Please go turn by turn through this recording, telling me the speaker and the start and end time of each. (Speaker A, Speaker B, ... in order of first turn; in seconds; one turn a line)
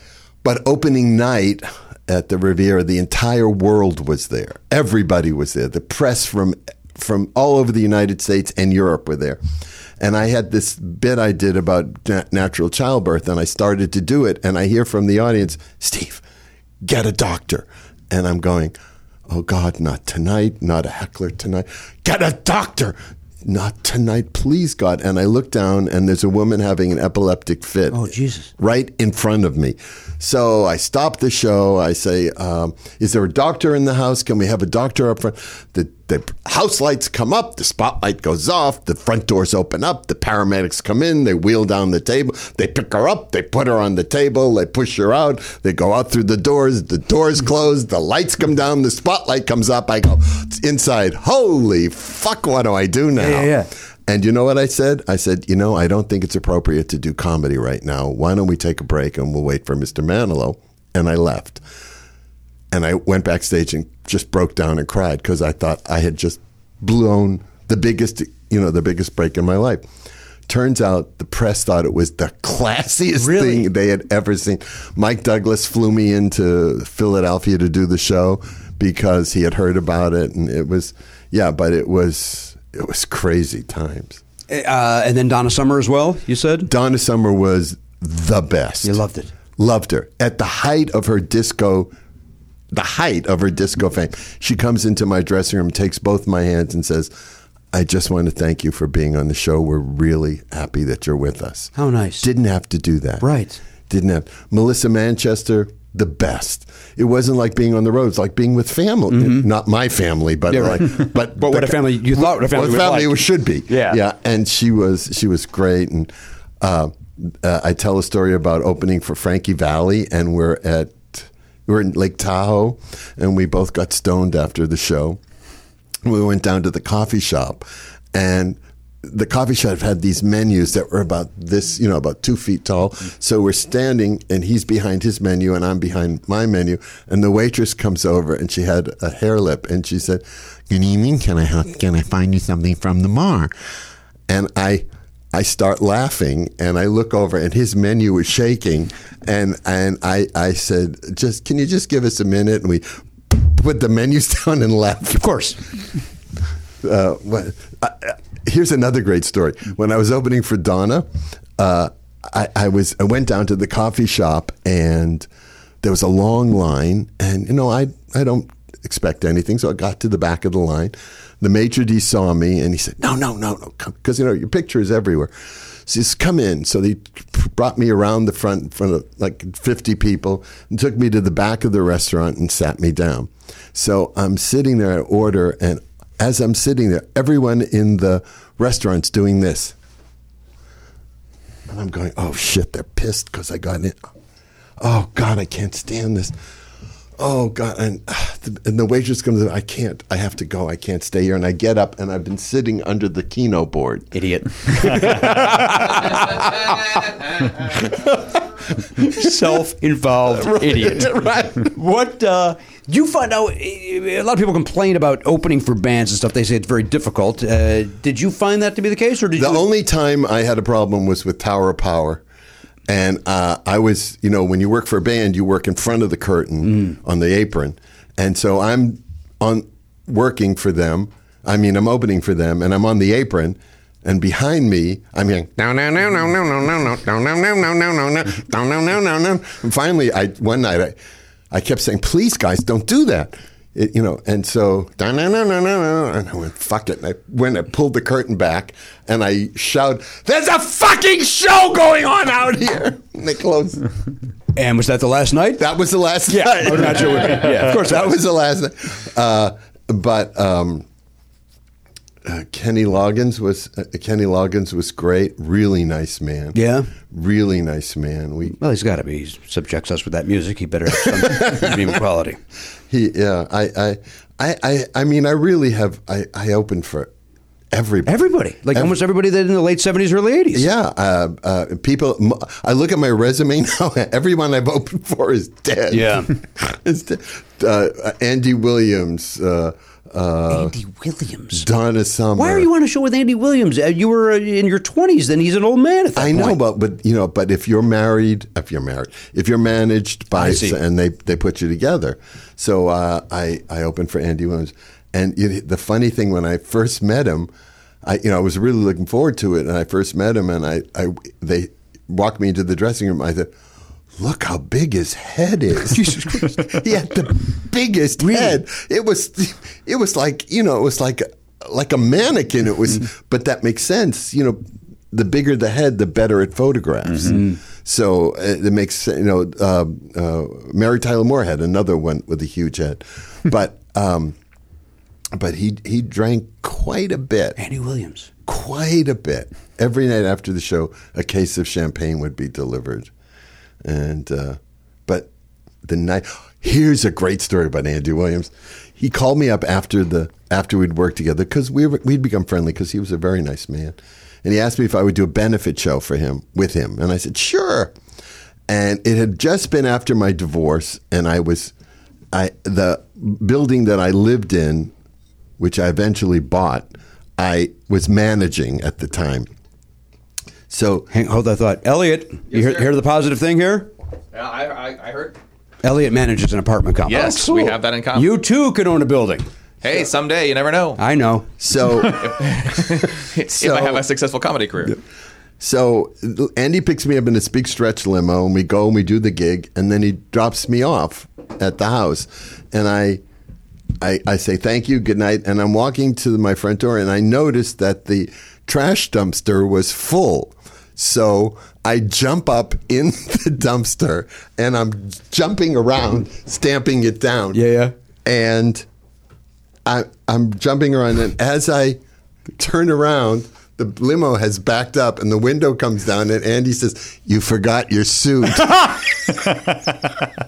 Speaker A: 0.4-9.4
Speaker A: 10.0-16.2
Speaker A: 16.8-18.7
Speaker A: 19.3-61.6
Speaker B: 27.9-28.5
Speaker B: 53.1-53.7
Speaker A: 62.7-69.8
Speaker A: 70.5-84.2
Speaker B: 73.2-73.7
Speaker B: 84.5-86.7
Speaker A: 86.7-89.0
Speaker B: 88.8-89.3
Speaker A: 89.6-91.9
Speaker A: 92.7-97.1
Speaker A: 97.7-103.2
Speaker B: 101.7-102.3
Speaker B: 103.2-103.6
Speaker A: 103.9-125.2
Speaker B: 109.1-109.5
Speaker B: 110.5-114.0
Speaker A: 126.0-143.5
Speaker A: 144.3-155.5
Speaker B: 155.1-155.6
Speaker A: 156.8-165.3
Speaker A: 165.8-189.7
Speaker A: 191.7-194.0
Speaker A: 194.8-196.3
Speaker A: 197.2-204.1
Speaker B: 204.1-206.9
Speaker A: 204.9-205.2
Speaker A: 207.8-208.4
Speaker B: 208.9-219.7
Speaker A: 209.0-209.6
Speaker A: 210.3-211.7
Speaker A: 219.3-222.2
Speaker A: 222.9-240.9
Speaker A: 241.5-253.9
Speaker B: 254.5-255.7
Speaker A: 255.6-260.8
Speaker B: 256.3-258.1
Speaker A: 262.2-268.6
Speaker B: 266.5-266.9
Speaker B: 268.5-272.4
Speaker A: 271.0-271.7
Speaker A: 272.9-277.1
Speaker A: 277.7-278.9
Speaker B: 278.1-280.7
Speaker A: 280.5-290.7
Speaker B: 285.9-286.3
Speaker B: 290.5-291.6
Speaker A: 291.5-292.7
Speaker B: 292.4-296.6
Speaker A: 296.1-307.5
Speaker B: 300.3-300.8
Speaker A: 308.0-313.5
Speaker A: 314.2-324.6
Speaker B: 315.9-316.6
Speaker B: 318.2-318.6
Speaker A: 325.1-334.4
Speaker B: 327.2-327.6
Speaker A: 335.3-337.6
Speaker B: 337.6-338.3
Speaker A: 338.4-343.1
Speaker A: 343.8-345.3
Speaker A: 345.8-357.9
Speaker A: 358.7-361.7
Speaker A: 362.3-364.9
Speaker A: 365.6-369.5
Speaker A: 370.7-371.1
Speaker B: 371.1-373.9
Speaker C: 372.5-372.9
Speaker C: 374.3-375.4
Speaker B: 375.8-379.5
Speaker C: 377.1-378.3
Speaker C: 379.8-381.0
Speaker B: 381.0-381.5
Speaker A: 381.6-382.9
Speaker C: 382.0-385.0
Speaker A: 383.4-384.0
Speaker A: 385.6-393.2
Speaker A: 394.0-407.6
Speaker B: 407.5-407.9
Speaker A: 408.2-408.8
Speaker A: 409.9-412.0
Speaker A: 412.6-419.4